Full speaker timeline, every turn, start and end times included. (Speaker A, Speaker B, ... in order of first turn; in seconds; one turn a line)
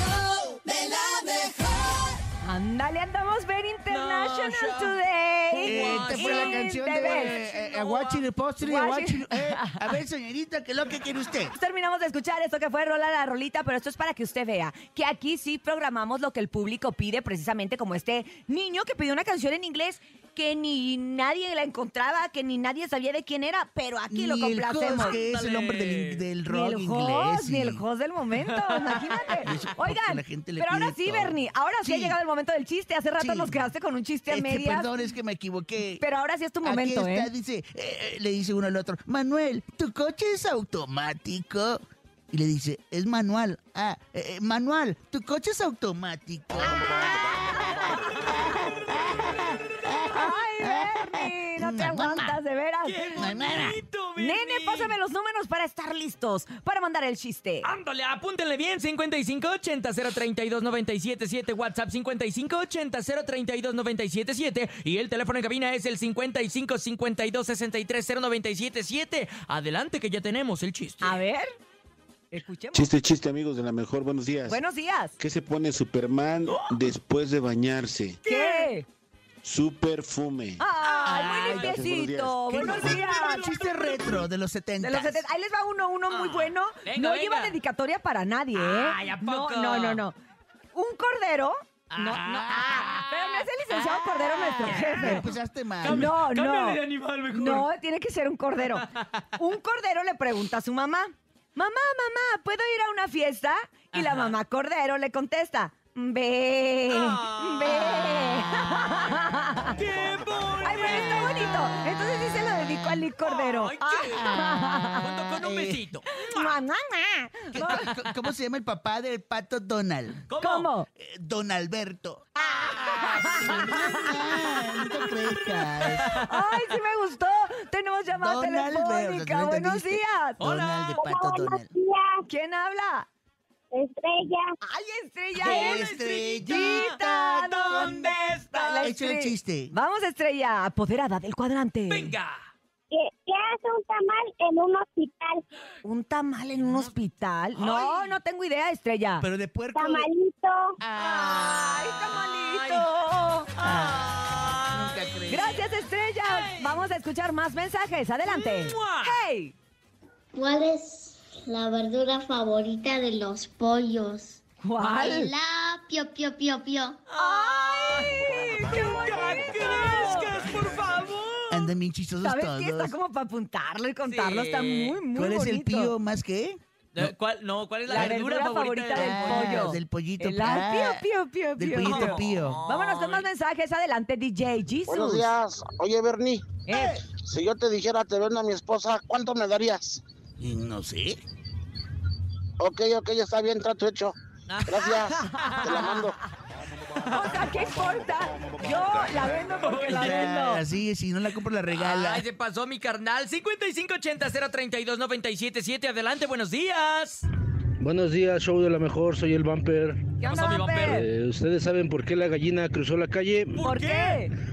Speaker A: 0.4-2.0
Speaker B: 2.4-7.4
Speaker A: 3.9-8.2
Speaker C: 5.6-11.5
Speaker B: 8.6-9.9
Speaker B: 11.6-25.2
Speaker C: 24.1-27.8
Speaker A: 24.9-26.3
Speaker B: 26.5-34.9
Speaker A: 28.4-29.5
Speaker C: 29.4-32.2
Speaker C: 33.2-33.6
Speaker C: 34.3-36.0
Speaker B: 36.0-37.3
Speaker C: 36.6-52.4
Speaker B: 46.7-48.5
Speaker B: 50.1-53.2
Speaker A: 52.9-54.9
Speaker C: 53.2-53.8
Speaker B: 54.2-57.7
Speaker A: 57.6-71.2
Speaker B: 71.0-71.5
Speaker B: 72.3-72.9
Speaker D: 72.7-74.6
Speaker B: 74.5-75.2
Speaker D: 75.2-78.2
Speaker A: 78.2-78.7
Speaker B: 78.3-78.9
Speaker D: 79.4-82.5
Speaker B: 80.6-84.1
Speaker A: 80.8-81.7
Speaker C: 82.5-85.2
Speaker B: 84.8-90.2
Speaker A: 86.1-87.6
Speaker A: 88.5-90.0
Speaker B: 90.7-95.3
Speaker A: 91.9-95.3
Speaker C: 94.6-96.2
Speaker A: 95.8-97.7
Speaker B: 95.9-98.8
Speaker A: 98.6-99.3
Speaker B: 99.4-109.7
Speaker A: 103.9-104.4
Speaker A: 106.9-108.7
Speaker A: 109.7-116.6
Speaker B: 110.6-115.2
Speaker C: 115.4-115.8
Speaker B: 116.1-117.9
Speaker C: 117.5-120.2
Speaker A: 117.6-118.1
Speaker A: 120.3-120.7
Speaker B: 120.4-120.9
Speaker C: 121.0-122.3
Speaker B: 122.4-124.9
Speaker A: 122.5-124.1
Speaker C: 123.0-126.2
Speaker A: 124.8-126.3
Speaker B: 126.2-130.4
Speaker C: 128.1-131.7
Speaker A: 130.4-131.0
Speaker E: 131.0-132.2
Speaker B: 132.3-133.1
Speaker E: 133.7-134.5
Speaker B: 134.6-135.8
Speaker A: 135.4-138.9
Speaker C: 135.4-138.2
Speaker B: 136.4-142.1
Speaker C: 138.8-139.7
Speaker A: 141.9-142.4
Speaker E: 142.9-145.4
Speaker B: 145.8-149.3
Speaker A: 146.6-146.9
Speaker A: 147.6-148.2
Speaker C: 149.2-150.1
Speaker E: 149.8-150.8
Speaker C: 150.8-152.0
Speaker B: 151.0-153.5
Speaker A: 152.0-152.9
Speaker A: 153.6-155.7
Speaker C: 153.6-155.6
Speaker B: 155.3-159.6
Speaker A: 156.2-156.9
Speaker A: 158.3-159.2
Speaker F: 160.3-164.4
Speaker B: 164.6-165.3
Speaker F: 165.0-167.0
Speaker A: 167.1-171.7
Speaker B: 167.2-170.3
Speaker C: 171.5-172.9
Speaker B: 172.2-175.9
Speaker A: 174.1-175.0
Speaker C: 175.1-177.1
Speaker A: 176.9-179.8
Speaker B: 177.9-185.3
Speaker C: 177.9-178.2
Speaker C: 178.9-181.1
Speaker C: 181.6-182.6
Speaker A: 181.8-183.3
Speaker G: 184.9-186.5
Speaker B: 186.7-187.0
Speaker C: 186.7-187.0
Speaker G: 187.1-190.0
Speaker C: 190.4-191.2
Speaker G: 192.6-194.2
Speaker A: 194.5-196.0
Speaker G: 194.7-196.2
Speaker B: 195.1-196.0
Speaker B: 197.1-200.6
Speaker A: 199.6-200.3
Speaker C: 199.9-202.3
Speaker A: 201.7-207.3
Speaker H: 207.8-210.1
Speaker B: 210.2-211.1
Speaker A: 210.2-211.1
Speaker H: 210.8-213.6
Speaker A: 213.5-214.3
Speaker B: 213.6-214.3